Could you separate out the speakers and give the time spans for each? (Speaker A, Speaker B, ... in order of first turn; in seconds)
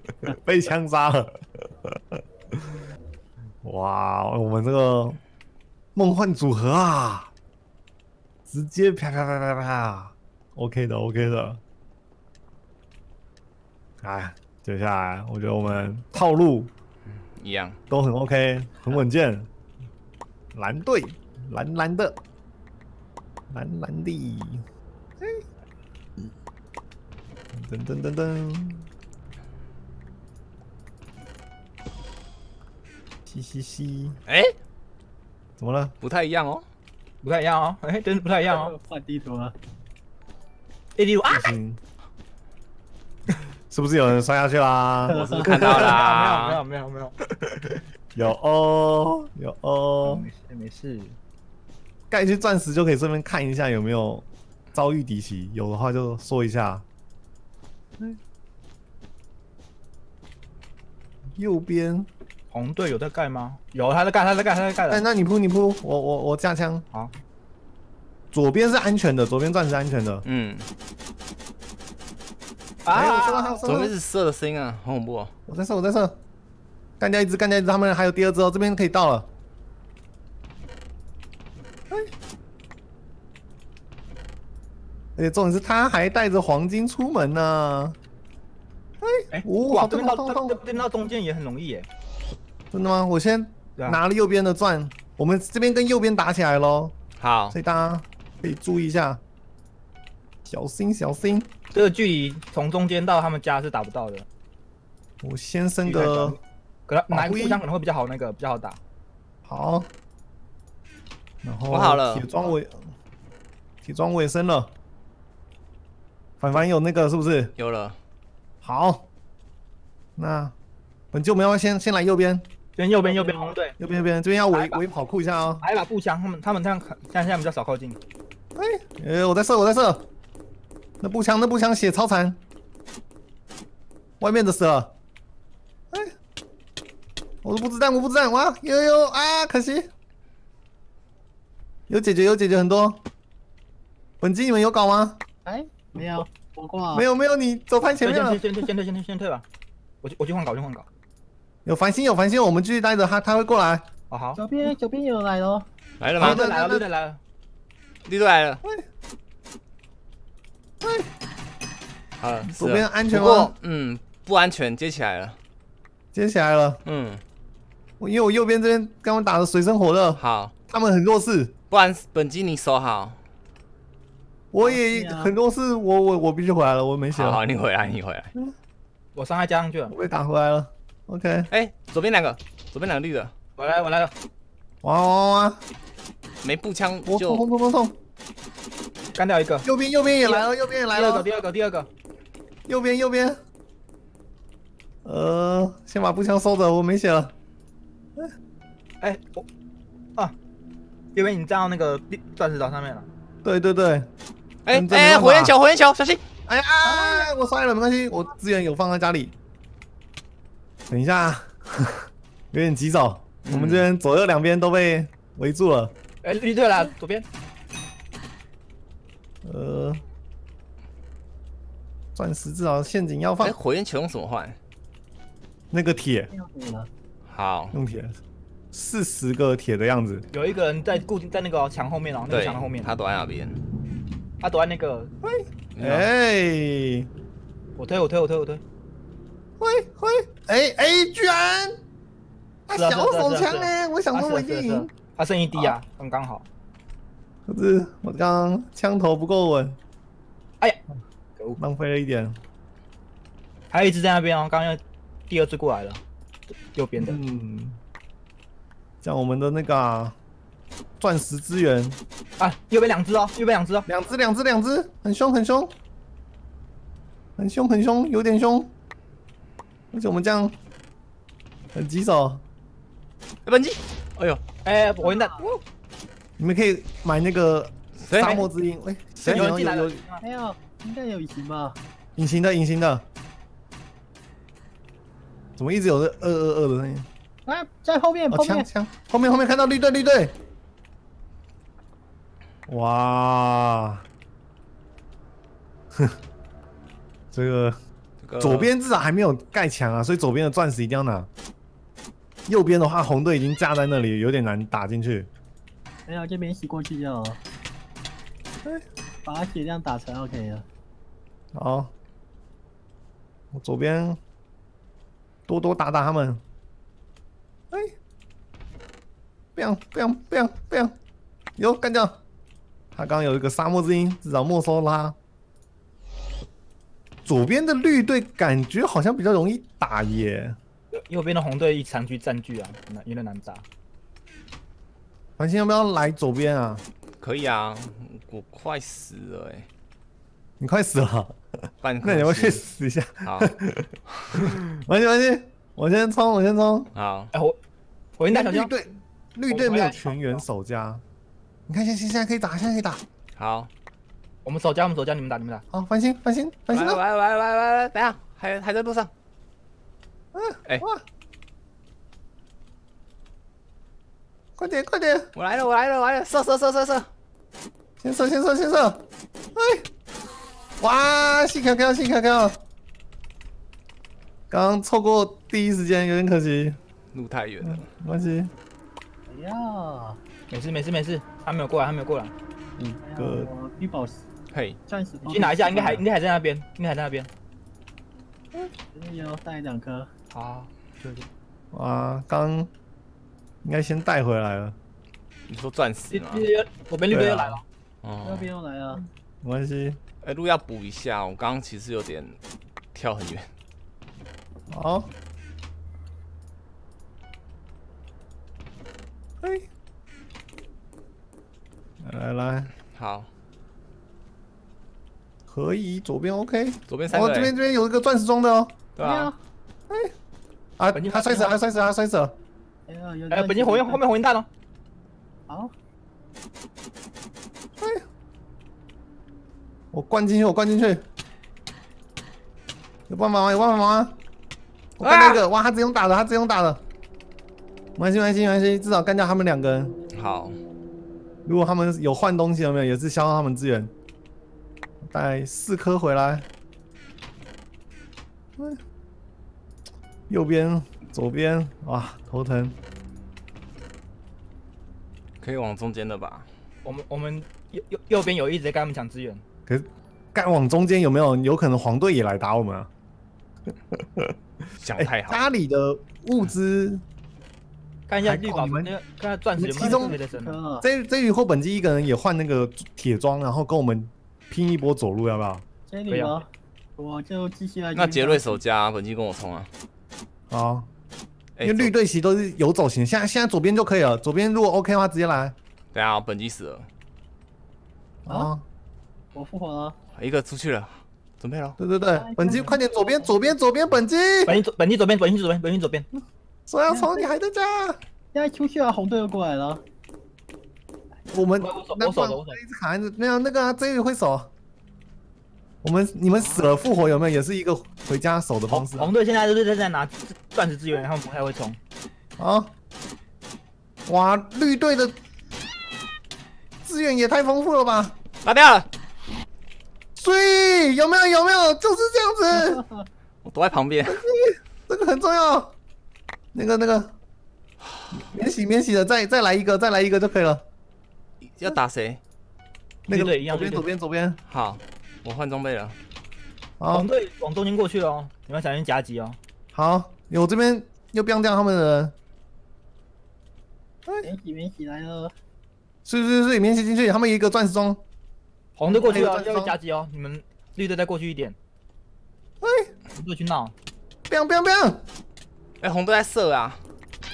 Speaker A: 0.2-2.2, 3.6-5.2, 6.0-7.3, 8.5-11.6, 14.0-16.7, 17.9-19.5, 20.5-22.2, 23.5-24.6, 27.5-28.9, 33.3-34.2, 35.6-35.9, 41.3-41.8, 43.7-45.4, 48.1-50.3, 52.1-56.8, 61.4-62.1, 64.9-66.8, 68.3-70.2, 72.9-73.9, 75.5-76.2, 77.0-79.3, 85.2-88.0, 89.0-90.6, 92.7-97.0, 97.5-99.2, 100.5-101.5, 105.2-106.4, 107.1-107.6, 109.5-109.9, 111.4-112.9, 113.8-114.7, 116.4-117.5, 118.6-119.1, 120.2-120.5, 121.1-122.5, 123.8-125.6, 128.6-130.1, 131.0-132.4, 134.2-134.9, 137.4-139.9, 141.9-143.0, 144.2-145.2, 146.9-148.4, 151.7-153.9, 156.2-156.9, 160.8-161.1, 162.5-163.5, 166.1-166.8, 168.0-171.5, 174.5-177.4, 179.9-181.5, 184.8-185.6, 187.1-187.9, 189.6-191.3, 192.7-193.4, 195.1-197.3, 203.4-204.1, 204.7-205.6, 206.5-209.3, 210.9-215.9, 219.4-220.0, 222.2-223.6, 225.7-226.3, 227.7-228.1, 228.7-230.2, 235.2-237.1, 239.6-241.8, 242.7-244.9, 247.5-249.8, 251.6-252.4, 257.0-257.8, 259.0-260.2, 261.0-262.0, 263.9-265.7, 267.4-268.7, 269.9-270.6, 271.7-272.4, 276.4-280.0, 282.2-283.1, 285.6-287.1, 288.3-290.3, 292.7-294.0, 297.3-297.8, 298.4-301.3, 302.5-305.3, 311.5-311.9, 313.5-314.2, 315.5-316.4, 319.6-320.9, 321.6-322.2, 322.9-325.2, 327.3-330.6, 335.4-336.8, 340.6-341.4, 342.0-346.9, 348.3-351.0, 351.7-353.0, 355.7-357.0, 360.3-361.0, 364.6-365.3, 368.0-369.0, 369.6-369.9, 370.8-372.6, 374.5-376.8, 377.6-378.5, 382.8-383.5, 391.7-392.7, 393.6-394.8, 397.1-397.6, 399.4-400.0, 404.7-405.1, 409.4-409.7, 412.0-412.7, 415.5-418.8, 420.8-422.3, 427.8-428.0, 429.9-431.1, 433.1-434.2, 435.0-436.8, 438.0-439.9, 441.5-443.9, 445.0-446.5, 450.3-452.8, 459.7-462.9, 463.9-464.4, 465.0-467.0, 468.2-468.9, 469.6-470.2, 470.8-475.6, 480.5-480.9, 481.6-485.6, 488.3-488.6, 491.8-494.6, 496.7-498.0, 501.3-504.5, 505.8-509.1, 512.4-512.7, 514.1-515.2, 516.9-518.1, 520.2-522.8, 524.0-525.8, 526.5-527.1, 528.1-530.6, 533.1-534.4, 536.8-537.1, 539.7-542.1, 546.0-548.0, 548.9-549.8, 552.6-552.9, 554.3-555.0
Speaker B: 17.1-17.8, 34.3-34.5, 36.0-36.6, 45.1-46.6, 70.2-70.7, 73.7-75.3, 97.2-97.6, 111.7-112.3, 117.6-118.0, 156.0-156.4, 158.1-158.6, 162.2-165.4, 166.8-167.2, 170.2-170.5, 171.7-173.2, 177.1-178.3, 181.5-183.3, 186.4-187.4, 204.7-206.2, 213.4-213.9, 223.4-224.6, 227.3-227.8, 232.3-233.6, 235.8-236.1, 273.4-274.4, 278.0-278.4, 298.2-298.7, 337.2-339.7, 341.8-342.6, 343.2-343.5, 344.1-344.5, 346.9-347.3, 353.4-353.7, 356.7-359.1, 365.4-367.1, 377.1-377.9, 384.5-384.8, 395.5-396.5, 398.0-398.5, 400.2-402.4, 402.9-403.5, 412.9-413.3, 416.9-417.5, 419.0-419.3, 435.0-435.4, 440.1-440.6, 455.4-456.5, 464.8-465.4, 477.9-479.7, 481.6-481.9, 485.9-486.9, 490.2-491.8, 518.4-518.9, 523.4-524.2, 531.4-532.2, 534.5-536.0, 555.8-556.8
Speaker C: 37.2-38.7, 41.0-41.5, 45.4-47.2, 50.0-51.2, 62.5-65.0, 72.8-73.7, 89.3-91.9, 101.7-104.2, 105.9-108.8, 122.8-123.8, 124.5-124.8, 125.6-128.0, 148.0-149.4, 150.0-150.9, 154.1-154.4, 156.2-157.2, 179.2-179.9, 183.6-184.1, 189.2-189.7, 190.2-191.9, 199.0-199.4, 201.2-203.1, 216.2-217.3, 230.3-232.9, 234.4-235.1, 237.8-238.6, 242.7-246.5, 253.7-256.0, 256.7-257.2, 262.4-263.9, 274.6-275.6, 278.2-278.5, 279.3-280.2, 330.9-333.6, 348.2-348.7, 349.5-350.4, 354.4-355.6, 380.5-382.3, 385.3-387.3, 390.3-391.3, 396.1-397.6, 420.9-421.5, 423.3-424.5, 456.8-459.4, 468.1-470.6, 476.1-476.4, 494.5-496.1, 501.6-502.6, 508.7-511.8, 533.1-533.9, 536.9-539.4, 548.8-551.6, 553.1-553.7
Speaker D: 38.5-39.5, 45.1-45.8, 123.0-123.6, 145.4-147.1, 154.4-155.7, 174.6-175.3, 206.8-207.3, 226.3-226.9, 275.0-275.5, 280.2-281.8, 287.5-288.7, 306.1-307.4, 309.2-310.6, 379.3-380.2, 383.0-384.2, 384.9-386.0, 388.9-390.1, 398.2-399.1, 419.0-419.4, 422.9-424.0, 425.5-425.7, 469.8-470.9, 475.9-478.6, 489.3-490.0, 492.1-493.4, 496.9-497.3, 498.3-499.8, 522.5-523.1, 544.2-545.3